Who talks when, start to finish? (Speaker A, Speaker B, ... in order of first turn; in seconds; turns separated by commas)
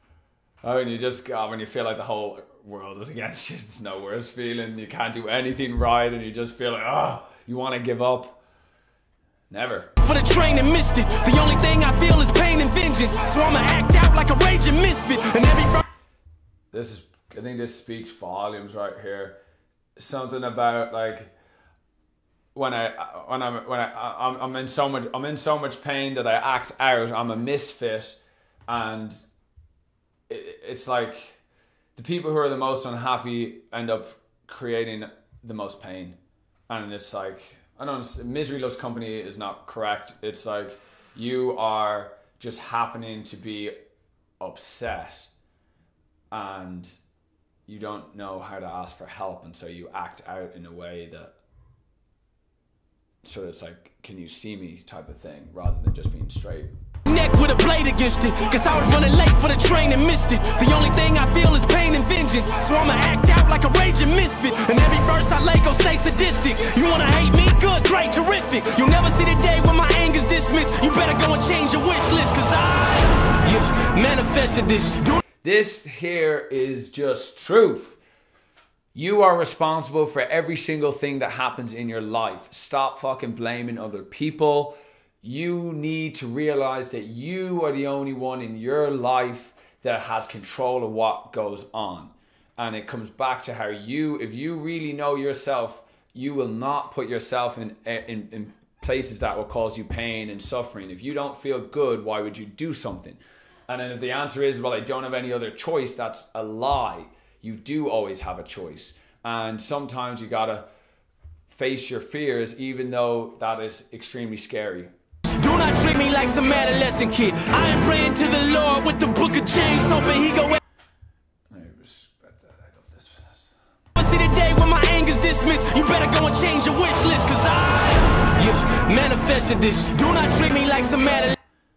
Speaker A: 0.6-8.4, Speaker A: 9.5-9.9, Speaker B: 10.0-15.8, Speaker A: 16.7-19.4, Speaker A: 20.0-21.3, Speaker A: 22.5-29.2, Speaker A: 30.3-31.4, Speaker A: 31.9-36.2, Speaker A: 36.7-43.8, Speaker A: 44.4-45.3, Speaker A: 46.3-46.9, Speaker A: 47.7-51.4, Speaker A: 53.2-56.7, Speaker B: 57.1-75.2, Speaker A: 75.4-78.0, Speaker A: 78.9-110.7, Speaker A: 111.5-114.9, Speaker B: 115.4-120.6, Speaker A: 121.5-123.6, Speaker B: 124.0-131.4